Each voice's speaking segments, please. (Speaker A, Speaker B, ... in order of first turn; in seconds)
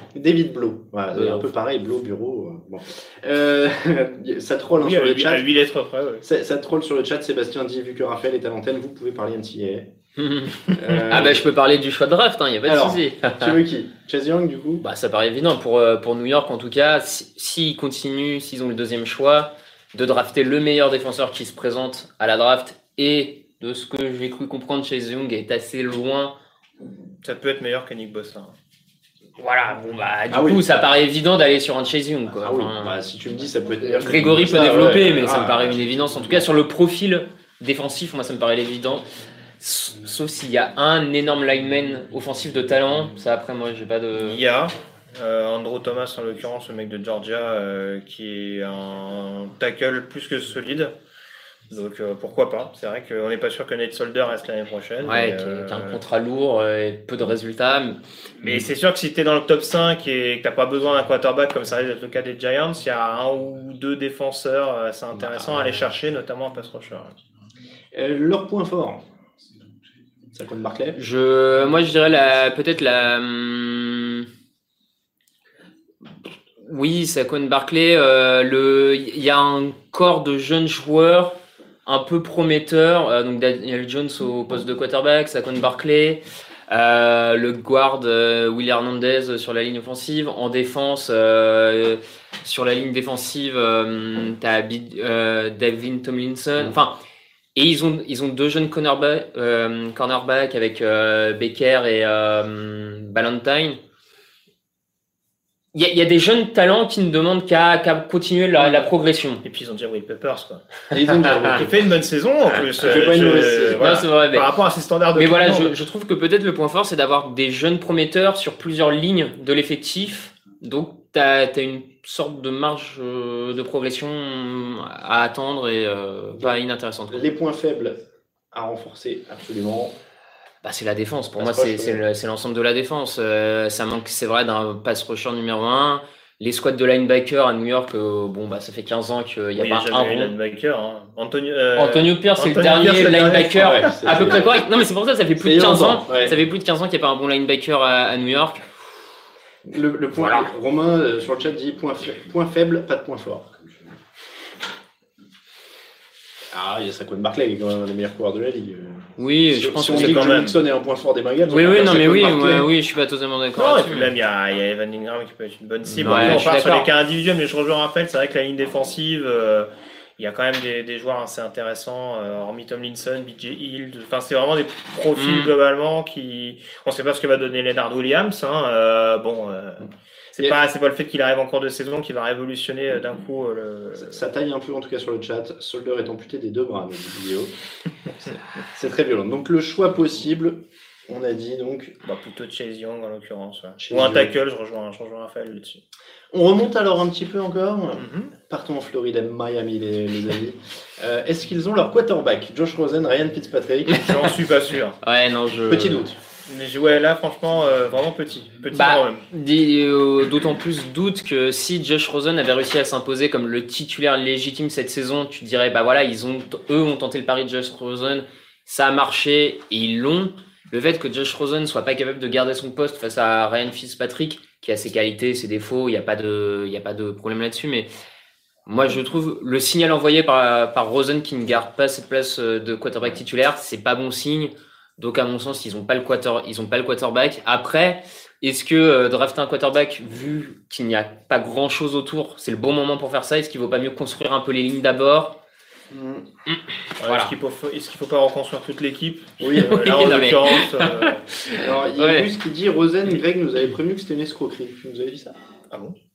Speaker A: 0.1-5.5, 6.2-9.9, 10.7-11.5, 12.7-14.8, 30.3-30.6, 32.4-36.5, 65.2-65.8, 67.9-69.0, 70.3-71.0, 110.9-111.9, 112.8-114.0, 126.3-128.0, 128.5-130.0, 131.4-132.0, 143.6-144.5, 145.4-146.4, 149.7-153.5, 156.5-162.7, 166.0-166.5, 184.0-187.5, 188.1-192.0, 193.8-194.3, 196.3-204.1, 205.7-206.2, 245.9-246.3, 249.4-250.0, 251.6-255.4
Speaker B: 1.1-1.4, 10.2-13.6, 14.8-26.4, 29.4-33.0, 34.0-39.0, 39.6-44.4, 55.0-58.0, 71.0-74.3, 76.6-97.0, 97.5-103.8, 105.7-109.4, 113.2-114.5, 115.1-127.3, 130.6-140.3, 141.8-148.7, 150.2-150.5, 159.2-160.5, 161.5-164.1, 166.0-166.9, 175.2-175.5, 205.0-206.1, 208.7-227.9, 228.7-245.4, 246.5-247.3, 249.5-252.3
Speaker C: 4.8-6.2, 27.2-28.5, 44.2-50.9, 51.7-56.0, 58.4-67.1, 108.6-108.8, 109.4-110.6, 111.5-115.8, 139.6-143.8, 159.9-160.6, 163.6-184.2, 192.1-195.8, 197.9-198.3, 203.9-205.0, 206.5-209.2, 247.0-251.2